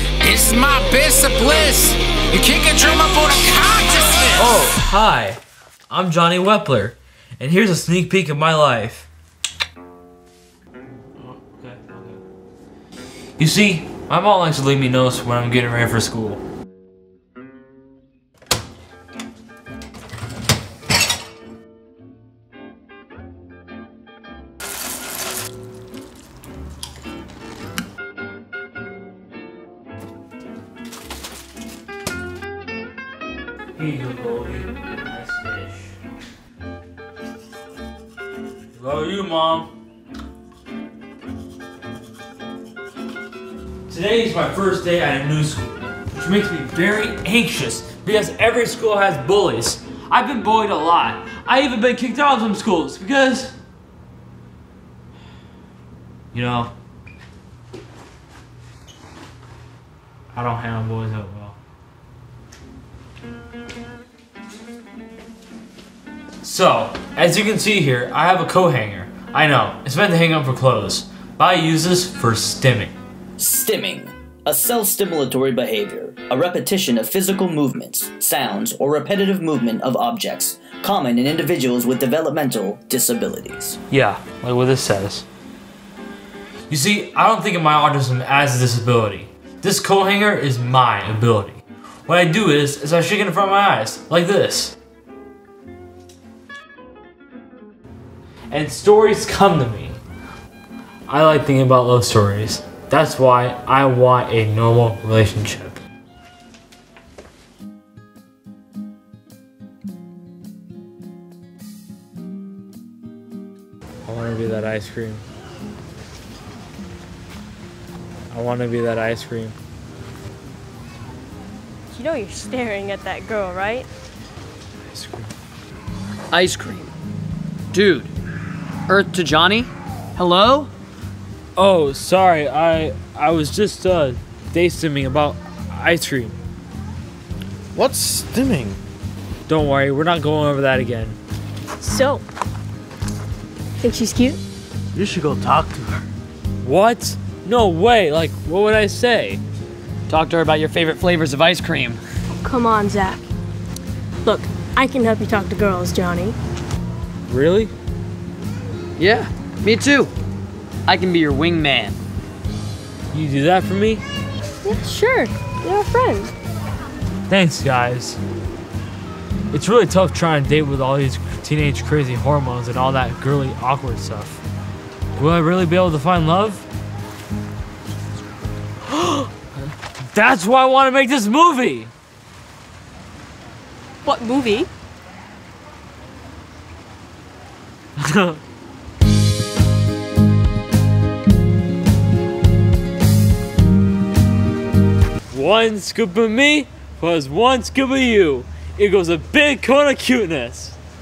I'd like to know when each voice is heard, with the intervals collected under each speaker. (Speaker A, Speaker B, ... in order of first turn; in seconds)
Speaker A: 0.2-4.6
Speaker B: 4.3-9.1, 11.1-12.2, 13.4-16.4, 33.7-35.9, 38.7-39.7, 43.9-53.5, 56.3-56.7, 60.3-61.6, 66.4-72.9, 83.9-85.2, 86.7-94.7, 98.5-100.0, 101.1-105.8, 114.0-115.2, 118.3-119.5, 124.9-125.3, 131.6-136.4, 139.5-141.2, 146.6-149.4, 157.3-157.7, 163.1-164.0, 167.3-168.2, 169.5-174.4, 175.2-176.6, 178.9-179.3, 180.1-181.9, 188.0-188.4, 195.3-200.8
Speaker C: 73.4-83.8
Speaker D: 121.9-123.9, 141.8-142.2, 143.8-144.4, 152.4-153.2, 154.2-156.3, 164.6-166.3, 184.0-184.7
Speaker E: 126.3-126.9, 127.7-128.1, 128.9-130.7, 150.1-152.0, 159.0-160.1, 160.9-162.0
Speaker F: 137.7-138.8, 144.9-146.0